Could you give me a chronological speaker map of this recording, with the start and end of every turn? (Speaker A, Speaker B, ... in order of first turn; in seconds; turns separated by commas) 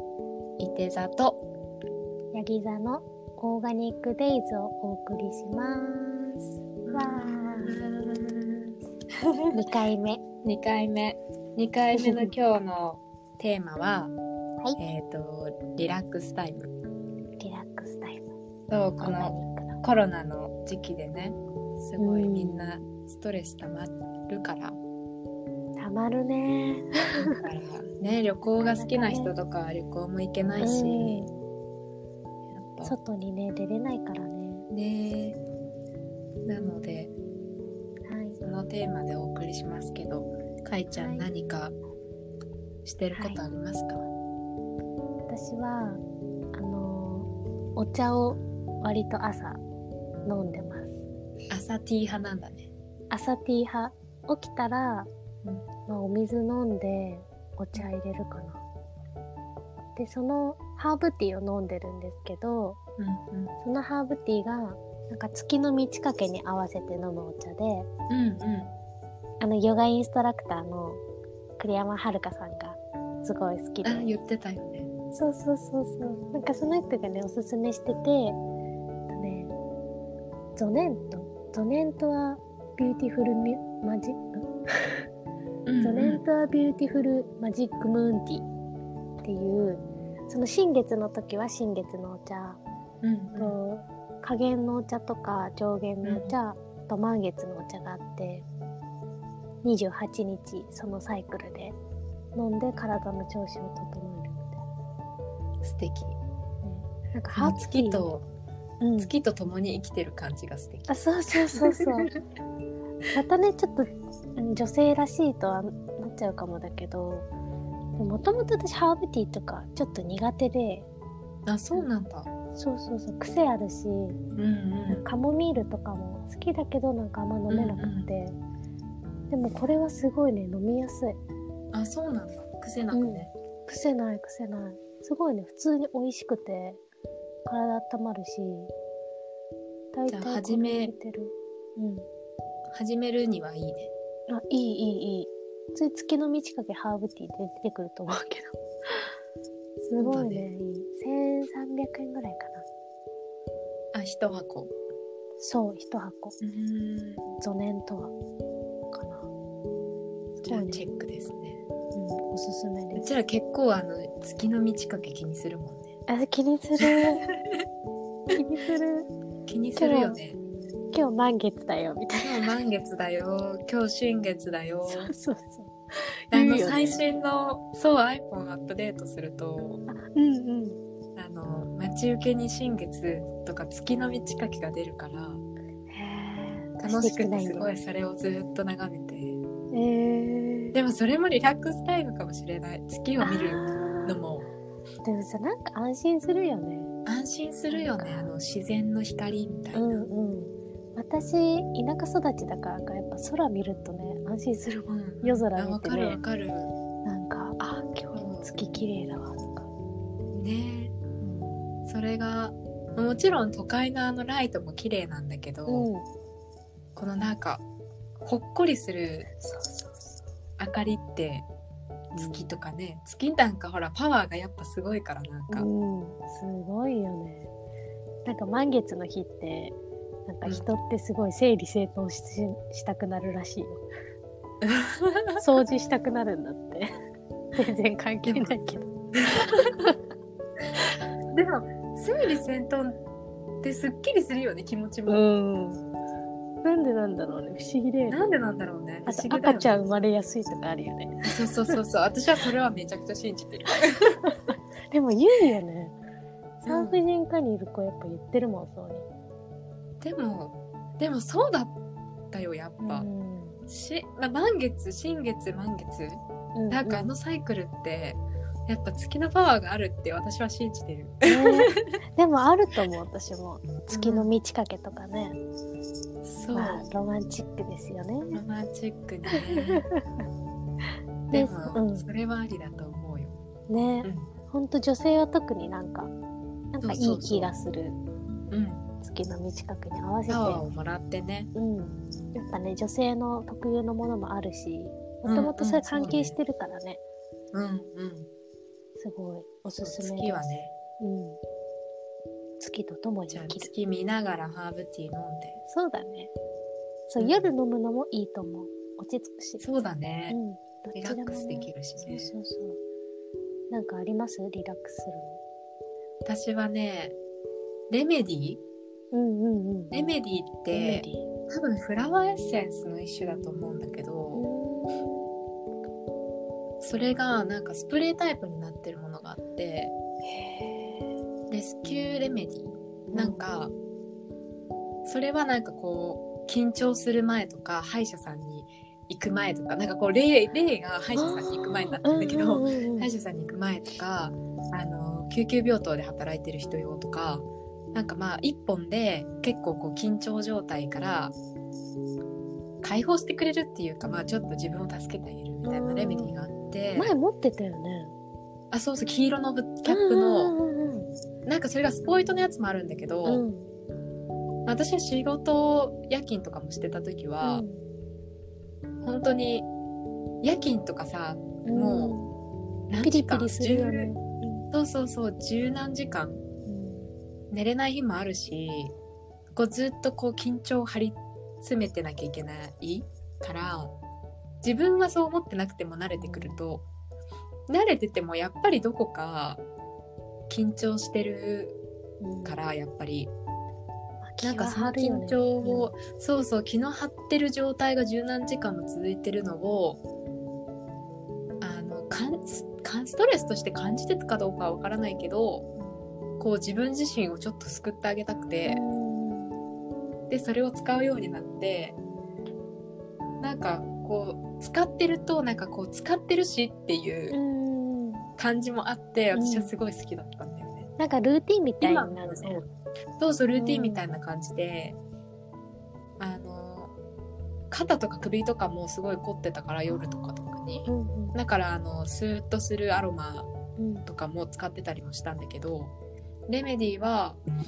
Speaker A: 0.6-1.4, Speaker B: 2.3-7.8, Speaker A: 6.8-9.7, Speaker B: 9.5-10.2, Speaker A: 10.4-14.2, Speaker B: 11.9-12.3, Speaker A: 14.8-16.7, Speaker B: 17.4-18.3, Speaker A: 18.7-24.8, Speaker B: 19.0-19.8, Speaker B: 22.0-22.6, Speaker B: 25.8-27.4, Speaker A: 27.2-31.3, Speaker B: 28.6-29.3, Speaker B: 30.6-31.3, Speaker A: 32.5-33.0, Speaker B: 32.9-34.7, Speaker A: 34.7-35.4, Speaker A: 36.5-37.1, Speaker B: 38.1-38.4, Speaker A: 38.4-41.8, Speaker B: 40.9-41.3, Speaker A: 42.9-44.1, Speaker B: 43.1-43.4, Speaker B: 45.3-46.0, Speaker B: 46.5-49.6, Speaker B: 50.2-51.0, Speaker A: 51.5-52.7, Speaker B: 53.1-55.1, Speaker B: 55.9-58.6, Speaker B: 60.0-62.8, Speaker A: 63.0-63.5, Speaker B: 63.6-67.9, Speaker A: 68.1-68.7, Speaker B: 69.4-71.0, Speaker B: 71.6-74.1, Speaker A: 73.8-74.9, Speaker B: 75.1-78.4, Speaker B: 79.1-79.5, Speaker B: 80.6-85.1, Speaker A: 85.7-86.2, Speaker B: 85.8-88.5, Speaker B: 89.2-92.6, Speaker A: 93.0-93.6, Speaker B: 93.3-98.5, Speaker A: 96.0-96.3, Speaker B: 99.6-101.8, Speaker B: 102.3-104.6, Speaker A: 105.6-106.2, Speaker B: 106.6-108.0, Speaker A: 107.3-108.3, Speaker B: 108.8-109.1, Speaker A: 109.0-112.2, Speaker B: 110.9-112.1, Speaker B: 113.1-117.3, Speaker B: 118.0-120.9, Speaker A: 121.5-122.3, Speaker B: 122.6-124.2, Speaker A: 124.4-125.1, Speaker B: 124.9-128.4, Speaker A: 127.5-128.1, Speaker B: 129.3-131.2, Speaker A: 131.7-133.3, Speaker B: 132.9-136.8, Speaker B: 137.4-138.7, Speaker B: 139.9-142.1, Speaker A: 140.1-140.9, Speaker A: 142.7-143.9, Speaker B: 144.3-149.1, Speaker B: 149.8-152.7, Speaker A: 150.0-150.4, Speaker A: 153.9-154.7, Speaker B: 155.4-156.4, Speaker A: 156.4-157.3, Speaker B: 157.4-158.1, Speaker B: 158.9-159.3, Speaker A: 160.4-161.6, Speaker B: 160.4-160.8, Speaker B: 161.9-163.1, Speaker A: 162.9-166.0, Speaker B: 166.1-167.2, Speaker A: 166.8-167.6, Speaker B: 168.3-169.1, Speaker A: 169.5-170.4, Speaker B: 169.8-170.2, Speaker B: 170.9-172.5, Speaker A: 172.2-175.1, Speaker B: 174.9-177.0, Speaker A: 176.3-179.8, Speaker B: 179.9-180.8, Speaker A: 181.2-185.4, Speaker B: 185.9-187.7, Speaker A: 186.8-189.4, Speaker B: 189.7-190.8, Speaker A: 190.7-194.5, Speaker B: 193.2-194.2, Speaker B: 195.0-196.9, Speaker A: 197.1-200.0, Speaker B: 197.7-198.3, Speaker B: 199.7-206.2, Speaker A: 204.9-206.7, Speaker B: 207.1-209.7, Speaker A: 208.1-208.5, Speaker A: 210.3-210.9, Speaker B: 211.2-211.6, Speaker A: 211.8-215.9, Speaker B: 215.7-216.1, Speaker A: 217.0-217.6, Speaker A: 218.2-219.3, Speaker B: 219.4-220.2, Speaker A: 220.6-221.5, Speaker A: 222.1-225.7, Speaker B: 222.2-222.4, Speaker B: 225.5-227.5, Speaker B: 228.2-233.8, Speaker A: 234.6-235.4, Speaker B: 235.4-236.9, Speaker B: 237.6-238.9, Speaker A: 238.2-238.6, Speaker A: 239.2-239.9, Speaker A: 241.3-243.0, Speaker A: 243.6-245.2, Speaker B: 245.1-245.8, Speaker B: 246.6-248.2, Speaker A: 248.1-249.7, Speaker B: 249.1-251.8, Speaker A: 251.2-254.2, Speaker B: 254.2-255.9, Speaker B: 256.6-259.1, Speaker A: 256.6-257.0, Speaker A: 260.0-261.8, Speaker A: 262.3-263.1, Speaker B: 262.8-263.6, Speaker A: 263.7-272.0, Speaker B: 266.6-267.1, Speaker B: 271.2-275.4, Speaker A: 273.9-274.3, Speaker A: 276.2-276.9, Speaker B: 276.6-278.4, Speaker A: 278.3-279.9, Speaker B: 279.3-280.2, Speaker B: 281.3-282.1, Speaker A: 281.3-283.4, Speaker B: 283.7-286.1, Speaker A: 284.0-284.3, Speaker B: 286.7-288.0, Speaker A: 286.8-287.5, Speaker A: 288.5-288.8, Speaker B: 289.0-290.6, Speaker A: 290.3-291.5, Speaker B: 291.6-297.0, Speaker A: 295.2-296.4, Speaker A: 297.5-298.3, Speaker B: 299.0-301.4, Speaker A: 299.8-300.7, Speaker B: 302.6-303.7, Speaker A: 303.3-305.6, Speaker B: 305.7-306.3, Speaker B: 307.1-309.6, Speaker A: 307.2-307.5, Speaker A: 309.6-310.4, Speaker B: 310.3-312.8, Speaker A: 310.9-312.3, Speaker B: 313.7-315.4, Speaker A: 316.2-317.2, Speaker A: 317.9-318.6, Speaker B: 319.1-320.0, Speaker A: 319.9-324.5, Speaker B: 320.7-321.3, Speaker B: 324.3-325.2, Speaker A: 326.8-329.9, Speaker B: 330.2-331.1, Speaker A: 331.5-333.7, Speaker B: 333.1-333.4, Speaker A: 335.1-351.4, Speaker B: 341.1-343.1, Speaker A: 352.8-357.1, Speaker B: 355.6-356.4, Speaker B: 356.9-358.1, Speaker A: 358.7-360.5, Speaker B: 359.9-361.1, Speaker A: 361.4-363.4, Speaker B: 363.2-363.7, Speaker A: 364.7-367.6, Speaker B: 367.4-367.8, Speaker A: 369.0-369.7, Speaker A: 370.4-372.2, Speaker B: 371.6-372.3, Speaker A: 372.9-374.1, Speaker B: 373.0-374.7, Speaker A: 374.7-376.4, Speaker B: 376.6-377.1, Speaker A: 377.5-378.9, Speaker A: 379.6-383.9, Speaker A: 384.6-386.9, Speaker B: 386.2-386.6, Speaker A: 387.7-389.6, Speaker A: 390.5-391.8, Speaker B: 392.2-392.6, Speaker A: 392.4-393.3, Speaker B: 394.2-395.9, Speaker A: 394.4-400.0, Speaker A: 401.6-405.7, Speaker A: 406.4-408.8, Speaker B: 408.7-409.6, Speaker A: 410.3-412.0, Speaker A: 413.4-417.4, Speaker B: 417.3-418.3, Speaker A: 418.4-420.9, Speaker B: 419.3-419.7, Speaker B: 421.0-422.6, Speaker A: 421.8-425.0, Speaker B: 423.5-424.1, Speaker A: 426.2-426.9, Speaker A: 427.7-433.5, Speaker B: 430.8-431.4, Speaker B: 433.8-434.1, Speaker A: 434.1-435.9, Speaker A: 436.5-437.4